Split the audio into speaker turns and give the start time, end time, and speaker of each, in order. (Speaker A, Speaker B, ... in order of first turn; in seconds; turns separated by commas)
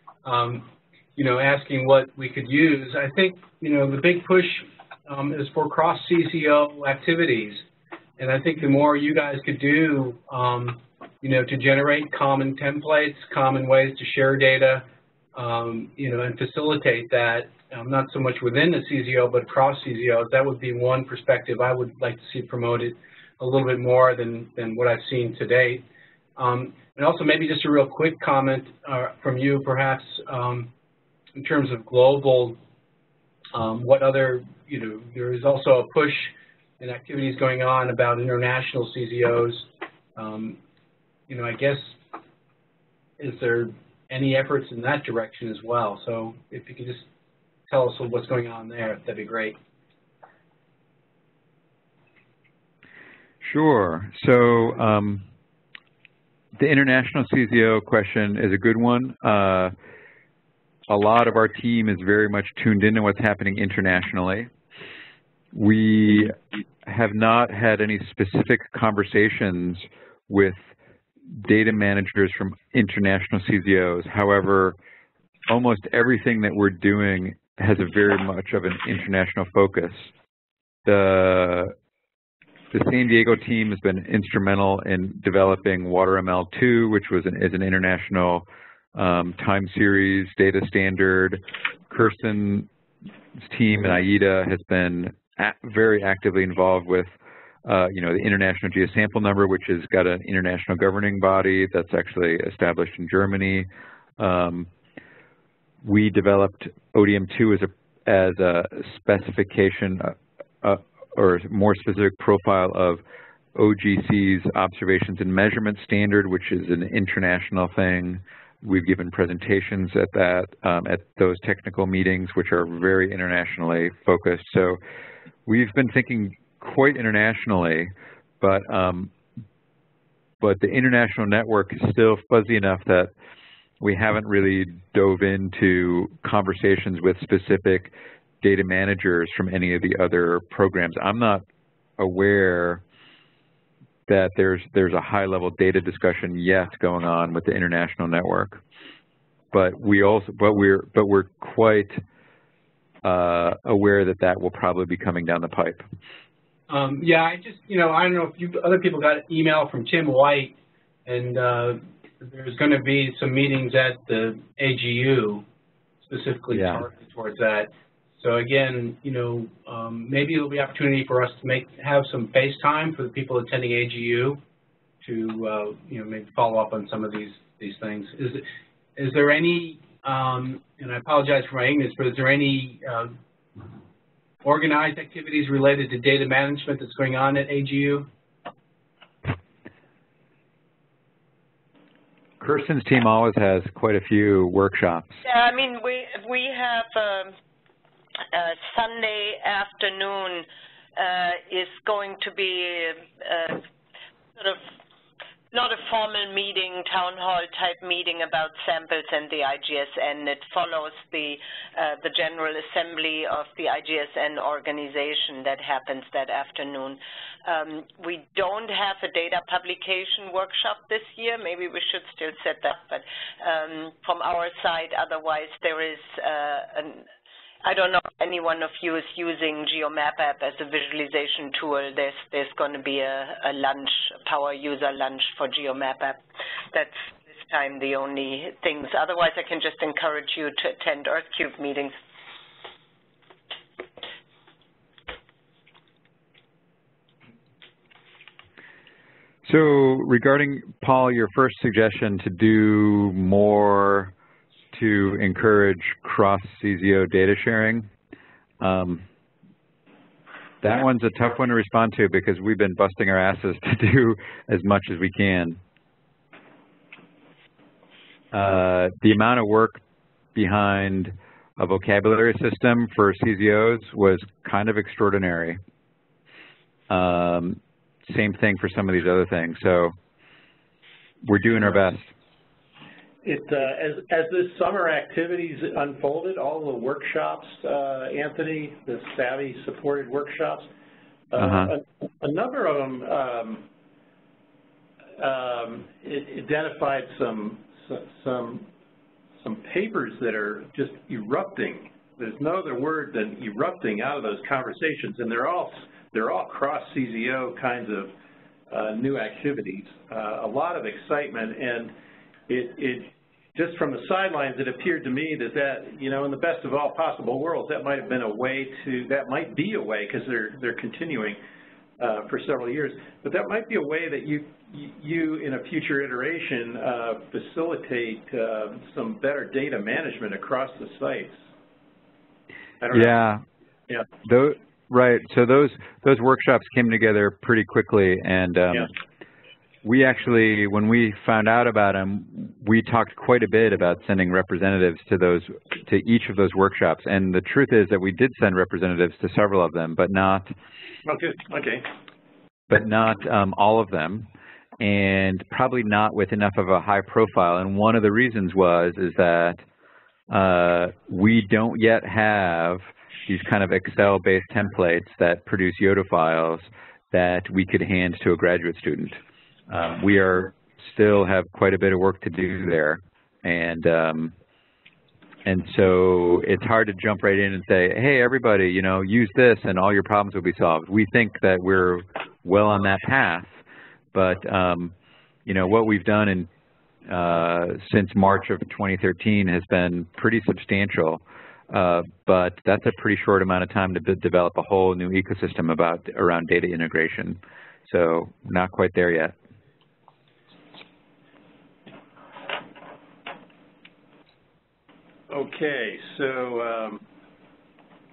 Speaker A: 0.2-7.7, Speaker A: 8.2-25.8, Speaker A: 26.4-30.7, Speaker A: 31.3-32.6, Speaker A: 33.5-40.6, Speaker A: 41.3-42.0, Speaker A: 43.2-47.0, Speaker A: 47.7-49.6, Speaker B: 53.4-55.2, Speaker B: 56.6-59.7, Speaker B: 60.9-64.5, Speaker B: 65.5-70.7, Speaker B: 71.3-74.8, Speaker B: 75.5-80.1, Speaker B: 80.8-81.7, Speaker B: 82.7-92.7, Speaker B: 93.4-103.7, Speaker B: 104.2-104.7, Speaker B: 105.8-113.0, Speaker B: 113.5-124.8, Speaker B: 125.5-129.1, Speaker B: 130.4-133.1, Speaker B: 133.8-141.4, Speaker B: 142.0-142.8, Speaker B: 144.1-148.6, Speaker B: 149.5-152.0, Speaker B: 153.0-155.8, Speaker A: 156.7-160.5, Speaker A: 161.1-165.4, Speaker A: 166.1-174.4, Speaker B: 166.5-166.8, Speaker A: 175.0-178.4, Speaker A: 179.0-183.1, Speaker A: 184.4-188.1, Speaker B: 192.4-195.2, Speaker C: 195.2-197.3, Speaker C: 198.3-203.6, Speaker C: 204.4-204.6, Speaker C: 205.5-227.0, Speaker C: 227.6-241.9, Speaker B: 249.4-254.1, Speaker B: 254.7-257.9, Speaker B: 258.6-259.0, Speaker B: 260.6-265.6, Speaker B: 268.3-269.8, Speaker B: 270.4-275.6, Speaker B: 276.9-279.9, Speaker B: 281.2-282.1, Speaker D: 283.2-290.7, Speaker D: 291.3-293.6, Speaker B: 291.4-291.7, Speaker D: 295.2-298.7, Speaker D: 299.4-308.1, Speaker D: 308.7-311.9, Speaker D: 312.5-321.4, Speaker D: 322.0-331.4, Speaker D: 332.8-333.2, Speaker B: 332.9-333.4, Speaker B: 334.2-338.9, Speaker B: 339.8-350.5, Speaker D: 351.0-351.9, Speaker B: 352.7-354.3, Speaker B: 354.8-359.6, Speaker B: 360.3-369.2, Speaker B: 369.7-374.3, Speaker B: 375.4-383.6, Speaker B: 384.1-384.9, Speaker B: 385.4-386.5, Speaker B: 387.1-399.4, Speaker D: 405.3-407.0